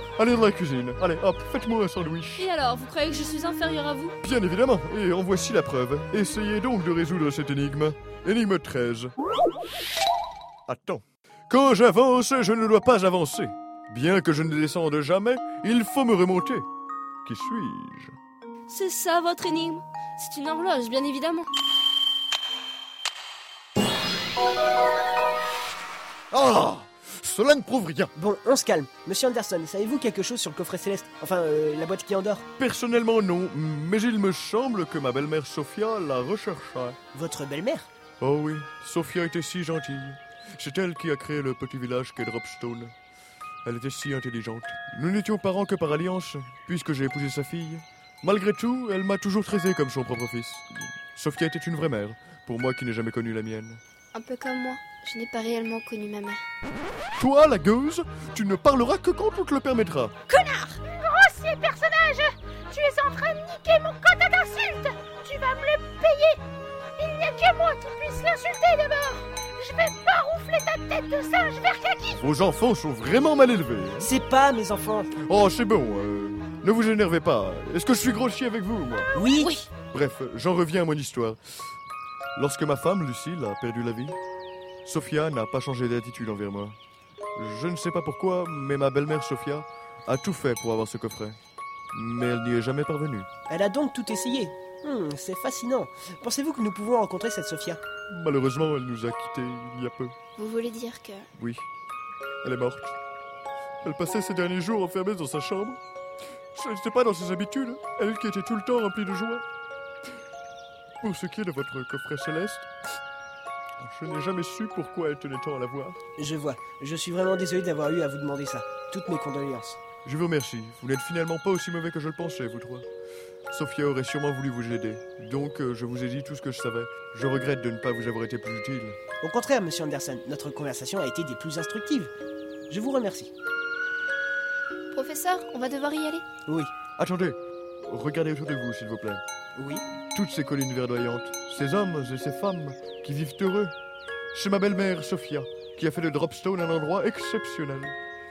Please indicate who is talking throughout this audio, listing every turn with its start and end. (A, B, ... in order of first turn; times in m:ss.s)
0:00.2-0:02.5 A
0:02.4-0:04.2 B
0:04.2-0:09.1 A
0:10.7-0:16.6 A
0:17.2-0:18.1 A
0:18.7-0:21.5 B
0:26.3-0:28.1 A
0:28.2-0:32.4 C
0:32.6-0:37.0 A
0:37.1-0:37.9 C
0:38.2-0:42.9 A
0:43.6-0:53.8 A
0:54.1-0:56.4 D
0:57.1-1:00.1 A
1:00.3-1:00.8 D
1:00.9-1:06.4 E
1:07.0-1:12.2 E
1:12.2-1:14.1 A
1:14.0-1:15.1 C
1:15.2-1:19.1 A
1:19.1-1:19.6 C
1:19.4-1:19.7 D
1:19.9-1:21.4 A
1:22.4-1:24.2 A
1:24.8-1:26.8 A
1:27.4-1:31.4 A
1:31.9-1:33.3 A
1:33.5-1:37.8 C
1:38.1-1:40.1 A
1:40.4-1:41.3 D
1:41.3-1:41.6 A
1:42.4-1:42.9 A
1:43.8-1:45.8 A
1:46.5-1:49.4 A
1:51.0-1:52.7 A
1:53.8-1:56.0 A
1:56.2-1:59.8 C
2:00.0-2:02.9 A
2:03.5-2:09.0 A
2:09.2-2:12.1 C
2:12.7-2:13.3 C
2:14.9-2:16.2 D
2:16.5-2:16.7 C
2:17.0-2:19.2 A
2:19.6-2:19.9 C
2:20.1-2:23.7 A
2:24.3-2:28.0 A